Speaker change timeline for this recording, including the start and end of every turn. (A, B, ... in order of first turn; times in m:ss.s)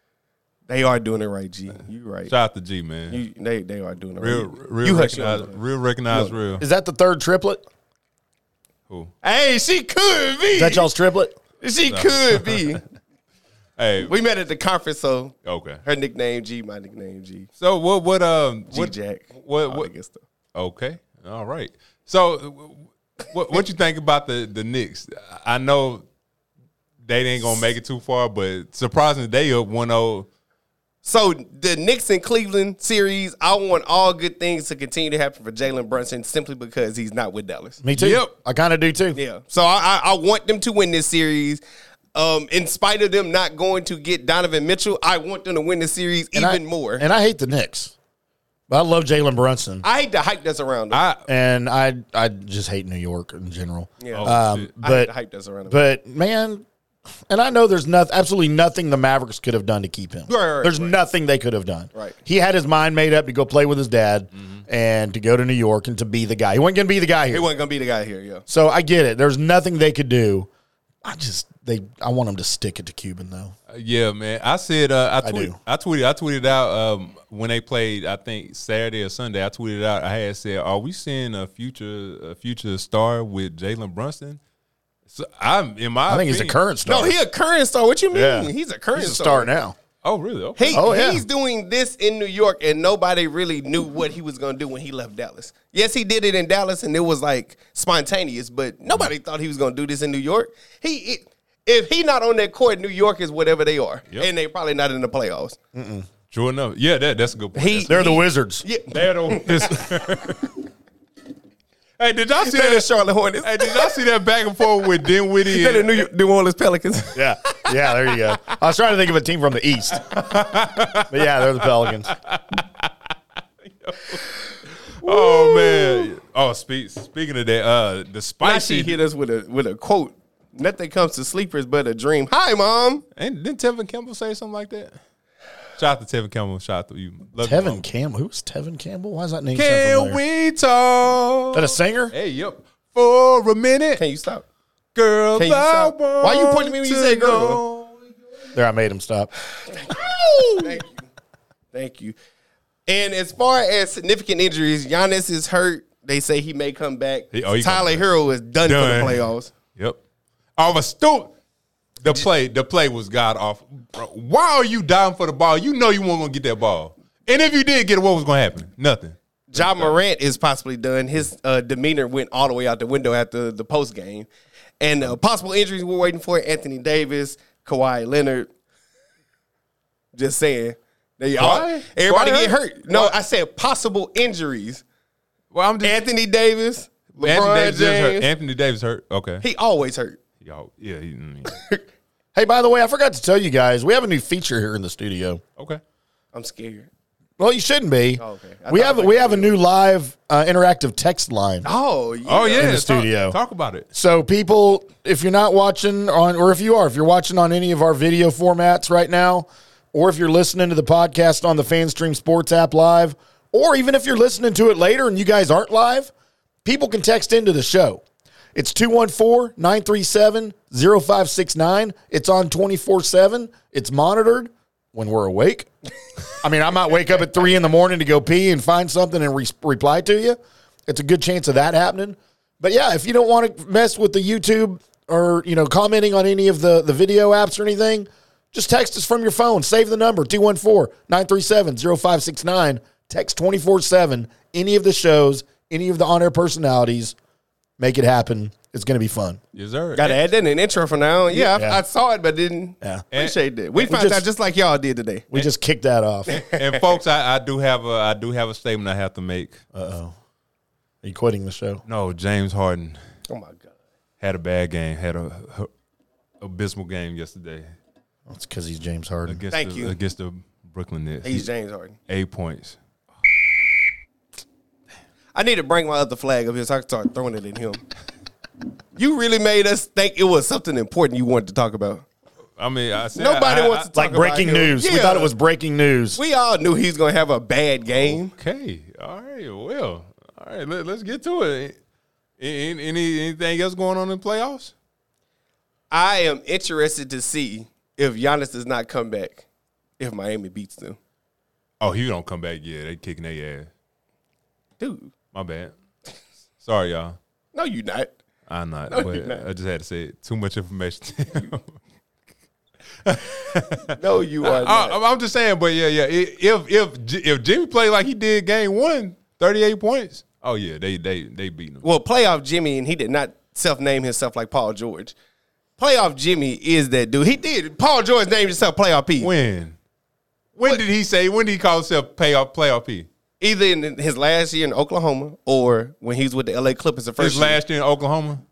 0:00.7-0:02.3 A
0:02.3-0:03.2 B
0:03.1-0:05.6 A
0:04.2-0:06.6 B
0:06.6-0:07.6 C
0:09.2-0:10.9 A
0:10.6-0:11.4 C
0:11.6-0:12.8 A
0:11.9-0:12.8 B
0:13.8-0:14.1 B
0:14.0-0:17.5 A
0:15.4-0:15.8 B
0:17.6-0:19.9 B
0:18.7-0:20.2 A
0:20.6-0:26.0 B
0:27.1-0:30.3 B
0:31.0-0:37.8 A
0:37.8-0:39.2 C
0:38.0-0:38.3 B
0:39.1-0:41.6 A
0:42.2-0:47.0 A
0:46.4-0:47.9 C
0:48.7-0:49.8 C
0:49.8-0:51.0 A
0:50.9-0:51.2 B
0:51.3-0:55.1 C
0:54.0-0:55.8 A
0:54.1-0:54.7 B
0:55.7-0:56.7 C
0:57.3-1:07.5 C
1:00.3-1:01.0 A
1:07.3-1:08.4 A
1:08.5-1:10.5 C
1:11.0-1:13.6 C
1:13.7-1:24.4 B
1:15.2-1:15.6 C
1:25.1-1:26.6 B
1:26.1-1:27.2 C
1:26.9-1:29.5 A
1:28.1-1:29.8 C
1:30.0-1:30.8 B
1:30.6-1:45.6 A
1:30.7-1:31.2 C
1:45.7-1:46.1 C
1:46.3-1:48.1 B
1:47.6-1:50.0 A
1:47.9-1:48.6 C
1:48.9-1:50.5 B
1:52.0-1:52.9 B
1:52.4-1:54.0 A
1:53.4-1:56.1 B
1:55.5-1:57.7 A
1:57.2-2:00.1 C
2:00.1-2:02.9 B
2:01.1-2:02.1 C
2:03.8-2:04.2 B
2:05.0-2:09.0 B
2:05.0-2:06.1 A
2:08.4-2:13.0 A
2:13.2-2:15.0 B
2:15.8-2:17.8 B
2:17.4-2:20.2 C
2:19.5-2:24.0 B
2:21.5-2:22.1 C
2:24.0-2:24.4 A
2:25.0-2:28.0 B
2:25.4-2:27.6 A
2:28.5-2:29.3 C
2:29.7-2:30.0 A
2:29.9-2:30.7 B
2:30.6-2:31.0 A
2:31.7-2:32.2 A
2:32.9-2:39.5 A
2:37.3-2:38.1 B
2:38.6-2:39.2 B
2:40.6-2:41.3 B
2:42.0-2:50.0 B
2:49.5-2:54.3 A
2:54.8-2:58.5 A
3:00.1-3:04.8 A
3:01.4-3:03.2 B
3:05.5-3:06.0 B
3:05.8-3:08.3 A
3:07.2-3:09.4 B
3:09.4-3:10.2 A
3:10.4-3:11.6 B
3:11.6-3:11.8 A
3:12.3-3:15.4 C
3:16.3-3:16.9 A
3:17.4-3:21.7 C
3:18.2-3:19.6 A
3:21.6-3:22.7 A
3:22.3-3:23.9 B
3:22.6-3:23.4 C
3:23.9-3:36.1 C
3:36.6-3:38.0 C
3:38.6-3:45.7 C
3:46.4-4:07.2 C
4:07.8-4:09.4 C
4:09.5-4:10.3 B
4:10.0-4:15.3 A
4:11.3-4:11.8 C
4:13.8-4:14.2 C
4:15.3-4:16.4 C
4:16.3-4:16.6 A
4:16.3-4:19.6 B
4:19.7-4:20.2 C
4:21.0-4:21.8 C
4:21.9-4:23.0 B
4:23.3-4:23.7 A
4:24.2-4:25.7 B
4:26.4-4:27.7 B
4:28.3-4:29.4 C
4:29.3-4:31.4 B
4:29.5-4:30.0 A
4:31.2-4:32.0 A
4:32.1-4:32.8 B
4:35.4-4:37.8 A
4:39.0-4:42.0 A
4:42.6-4:43.9 B
4:43.2-4:45.3 A
4:43.9-4:46.2 C
4:46.2-4:48.3 A
4:47.9-4:51.8 B
4:52.4-4:54.7 B
4:55.9-4:59.4 A
5:00.0-5:01.0 A
5:01.8-5:03.7 B
5:04.8-5:05.1 A
5:05.3-5:05.7 B
5:06.6-5:07.2 B
5:07.5-5:08.1 A
5:08.5-5:11.8 B
5:08.9-5:09.4 A
5:13.0-5:13.9 B
5:13.9-5:15.0 A
5:14.4-5:21.8 B
5:21.8-5:25.1 A
5:25.8-5:29.3 A
5:29.2-5:29.8 B
5:30.6-5:33.1 B
5:33.4-5:37.6 A
5:37.2-5:38.4 B